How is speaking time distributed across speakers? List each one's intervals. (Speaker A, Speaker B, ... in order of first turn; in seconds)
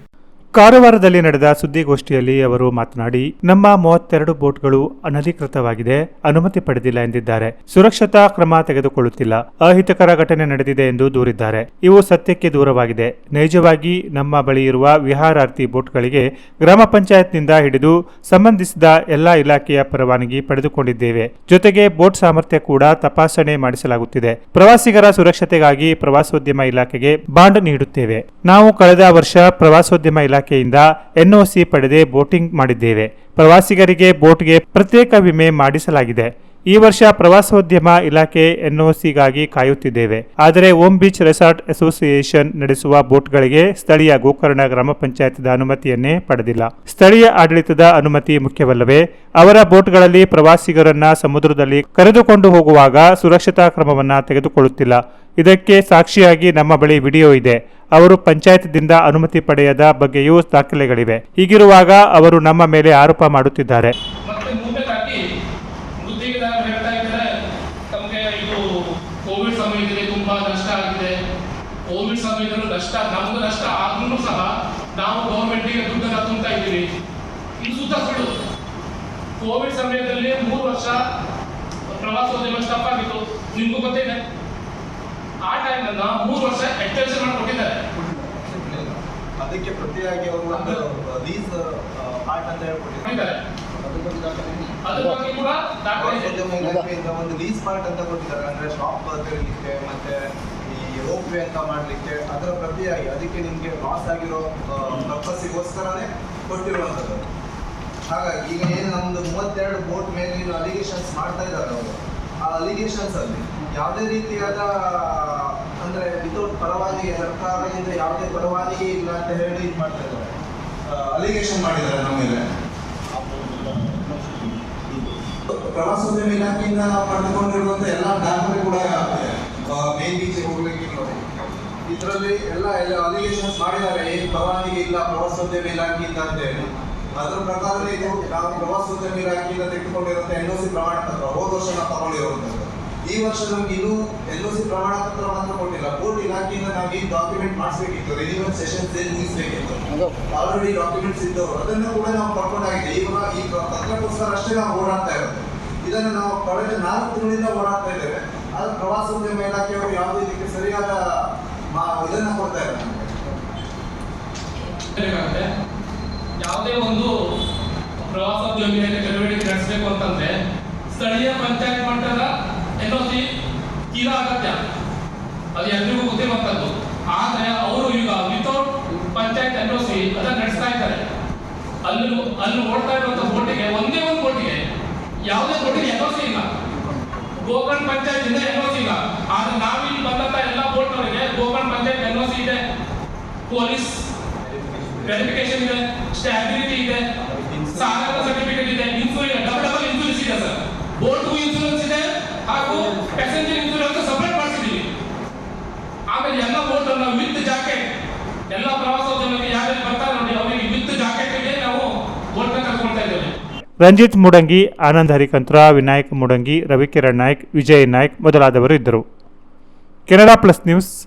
Speaker A: 0.6-64.0, 213.8-219.0, 220.1-220.9
Speaker B: 64.3-65.2, 66.0-67.3, 67.9-71.1, 71.9-76.9, 77.6-78.3, 79.4-81.0, 81.9-84.2, 85.5-87.8, 90.5-90.8, 93.1-93.4, 94.8-96.3, 164.9-165.5, 166.4-167.1, 168.0-170.3, 170.9-173.2, 173.9-174.6, 175.6-181.0, 181.8-184.6, 185.3-186.5, 187.4-192.6, 193.5-194.0, 195.1-197.0, 197.7-204.9, 206.1-207.9, 208.5-213.3
Speaker C: 88.2-93.1, 94.0-94.6, 96.0-107.2, 108.1-120.3, 120.9-122.5, 123.2-125.1, 125.7-131.3, 131.9-163.1, 194.4-195.4, 197.2-198.5, 202.6-203.2